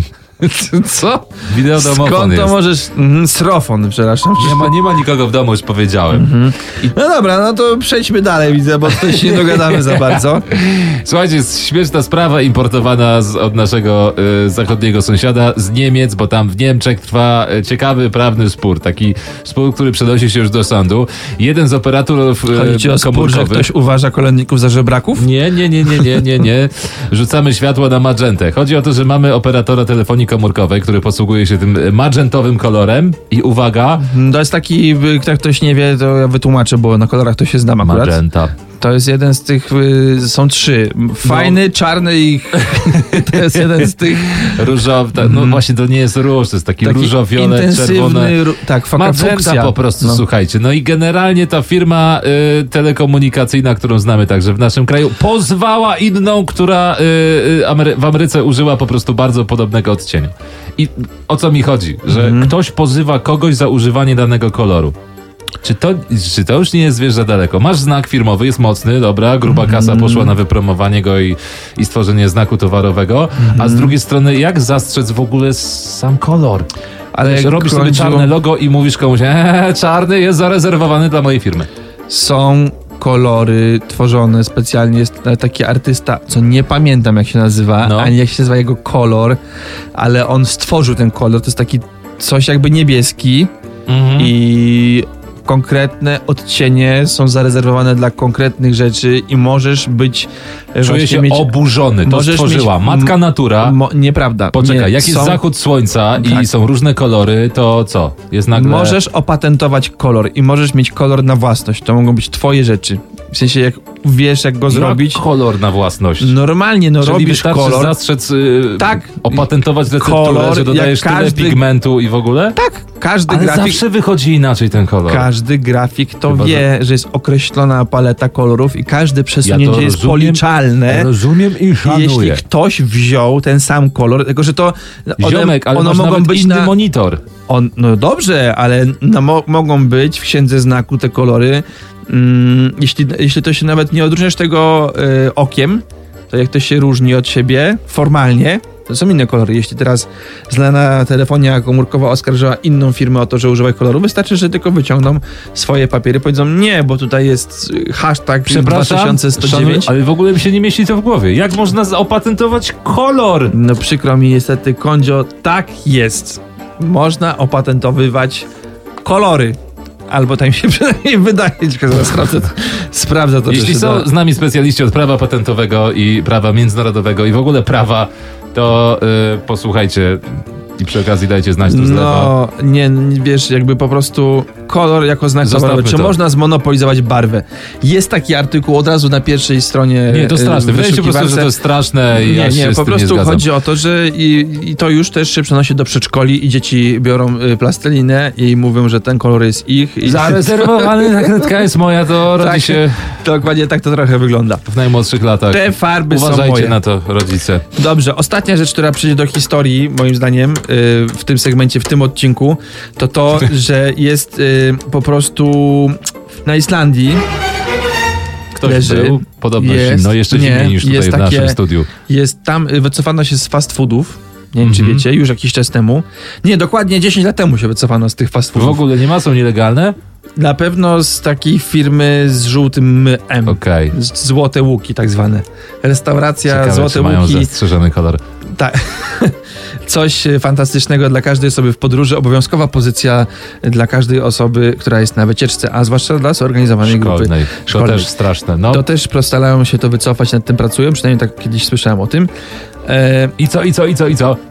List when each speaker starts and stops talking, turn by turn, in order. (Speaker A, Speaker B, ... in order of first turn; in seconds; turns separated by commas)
Speaker A: 0.4-4.8, Speaker B: 1.5-2.6, Speaker B: 4.4-6.3, Speaker A: 6.1-10.5, Speaker B: 9.0-23.7, Speaker A: 22.5-25.3, Speaker B: 25.2-34.0, Speaker A: 25.8-26.2, Speaker A: 34.0-38.2, Speaker B: 37.8-38.6, Speaker A: 38.8-45.6, Speaker B: 41.2-41.6, Speaker B: 42.6-48.4, Speaker A: 46.8-50.2, Speaker B: 49.0-65.0, Speaker A: 62.1-62.5, Speaker B: 65.6-76.7, Speaker A: 69.5-70.4, Speaker A: 73.4-74.0, Speaker A: 77.1-78.3, Speaker B: 77.2-81.7, Speaker A: 82.1-89.4, Speaker B: 87.8-88.2, Speaker A: 90.0-93.5, Speaker B: 93.9-94.3, Speaker A: 94.2-105.4, Speaker B: 100.8-103.8, Speaker B: 104.5-109.0, Speaker A: 106.2-106.5, Speaker A: 108.5-115.2, Speaker B: 114.7-116.3, Speaker A: 116.2-118.0, Speaker B: 117.0-122.6, Speaker A: 118.8-121.6, Speaker A: 122.5-123.8, Speaker B: 123.3-125.3, Speaker A: 125.1-131.1, Speaker B: 126.3-126.7, Speaker B: 129.4-132.4, Speaker A: 131.8-136.7, Speaker B: 135.2-137.2, Speaker A: 137.5-159.9, Speaker B: 158.5-163.6, Speaker A: 163.5-168.5, Speaker A: 169.0-174.1, Speaker B: 173.5-182.3, Speaker A: 181.7-191.5, Speaker B: 185.4-186.2, Speaker B: 190.1-193.5, Speaker A: 192.1-201.6, Speaker B: 200.0-203.2, Speaker A: 202.4-204.7, Speaker B: 204.7-207.7, Speaker A: 205.5-206.8, Speaker A: 207.8-217.2, Speaker B: 218.6-221.9, Speaker A: 218.6-228.9, Speaker B: 224.6-225.0, Speaker B: 228.5-230.0, Speaker A: 230.4-237.5, Speaker B: 233.5-233.9, Speaker B: 236.5-238.2, Speaker A: 238.5-248.1, Speaker B: 246.8-248.8, Speaker A: 248.7-252.3, Speaker A: 252.9-253.4, Speaker B: 253.4-254.4